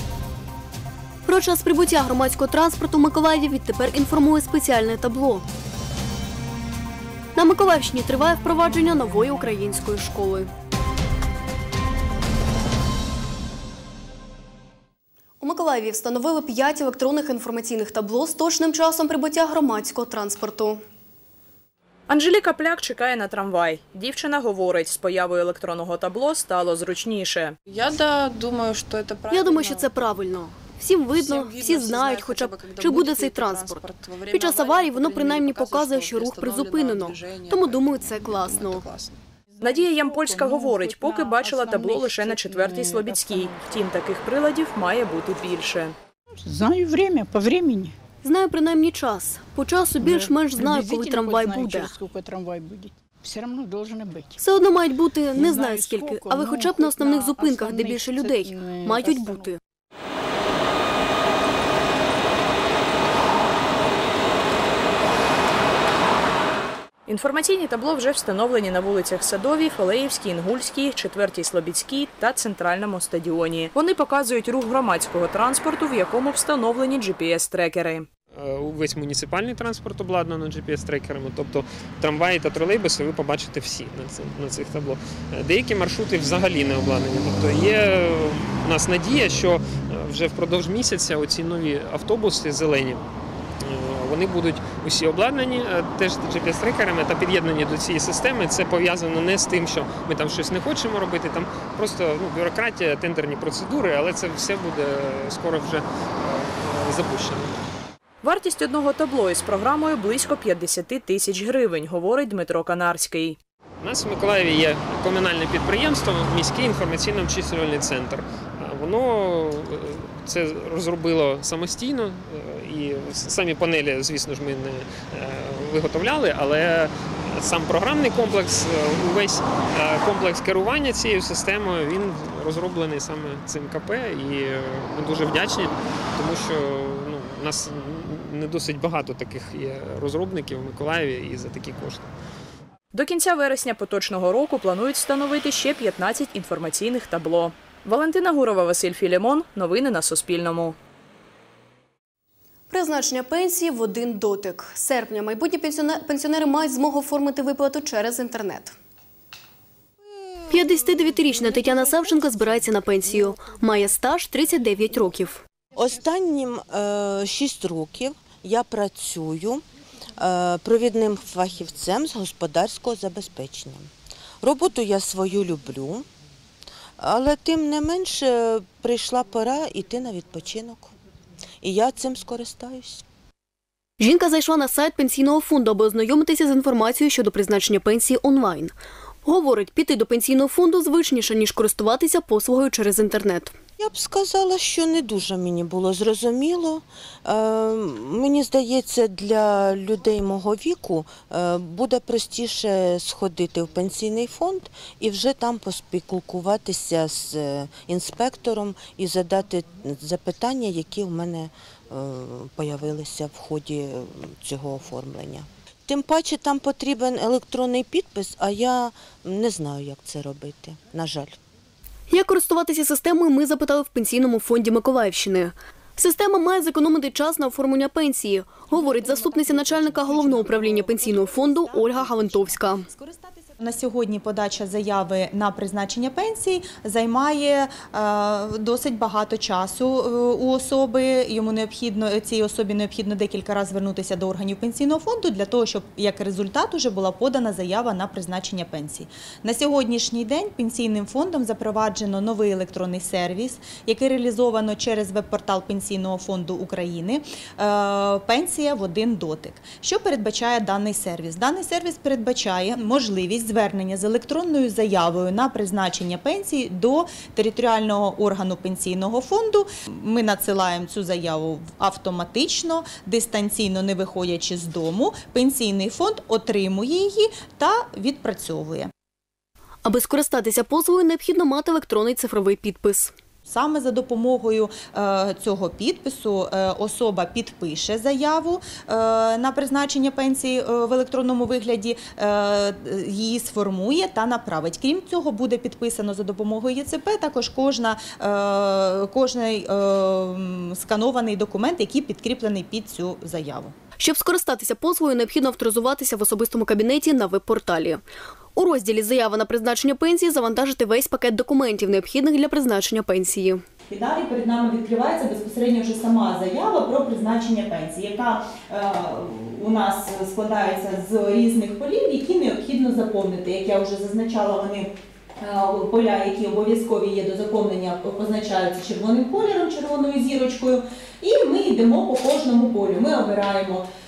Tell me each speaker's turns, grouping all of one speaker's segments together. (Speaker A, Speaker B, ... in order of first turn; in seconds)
Speaker A: 1.2-5.4, 7.3-10.5, 15.4-20.8, 29.3-38.9, 48.2-52.0, 54.4-59.6, 152.7-158.8, 160.5-165.4, 184.0-193.6, 222.1-232.9, 279.8-283.1, 304.0-308.0, 308.6-313.6
Speaker B: 22.1-27.5, 39.6-45.9, 67.1-78.1, 108.2-113.4, 142.9-150.8
Speaker C: 27.6-29.9, 31.1-39.2
Speaker D: 39.6-43.9, 46.4-47.9, 50.0-54.4, 55.3-59.5
Speaker E: 78.3-93.0, 93.6-107.6, 113.8-142.1
Speaker F: 165.8-169.6, 170.2-173.9, 174.4-176.1, 177.0-180.9, 181.6-183.0, 193.8-221.4
Speaker G: 228.7-278.9, 283.4-303.7, 313.9-333.9